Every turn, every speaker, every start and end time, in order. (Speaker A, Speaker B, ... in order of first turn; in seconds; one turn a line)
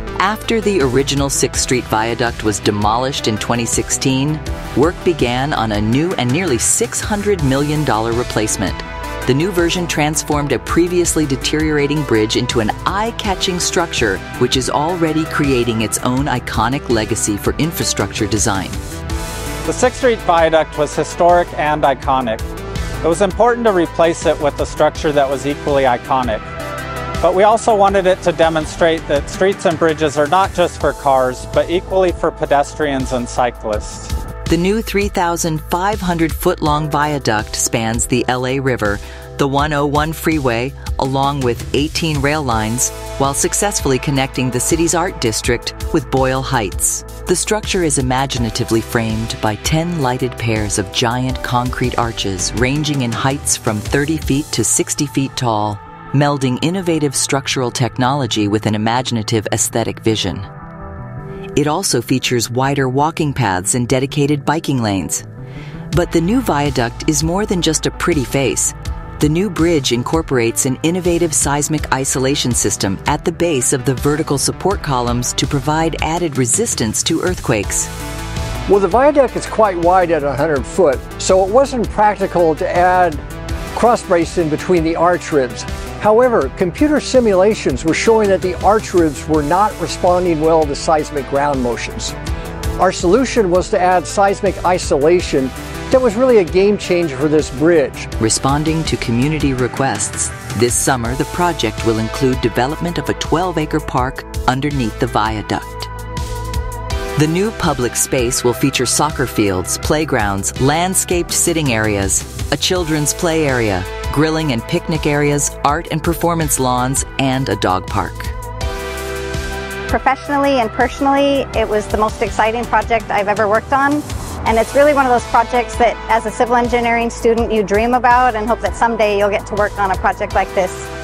Speaker A: 0.2-18.8
Speaker B: 19.6-22.4
Speaker B: 23.0-26.4
Speaker B: 27.2-34.1
Speaker A: 34.5-60.5
Speaker A: 61.5-65.2
Speaker A: 65.9-77.9
Speaker C: 78.7-83.2
Speaker C: 83.7-92.2
Speaker C: 92.8-98.1
Speaker A: 98.2-105.9
Speaker A: 107.2-118.3
Speaker D: 119.9-130.9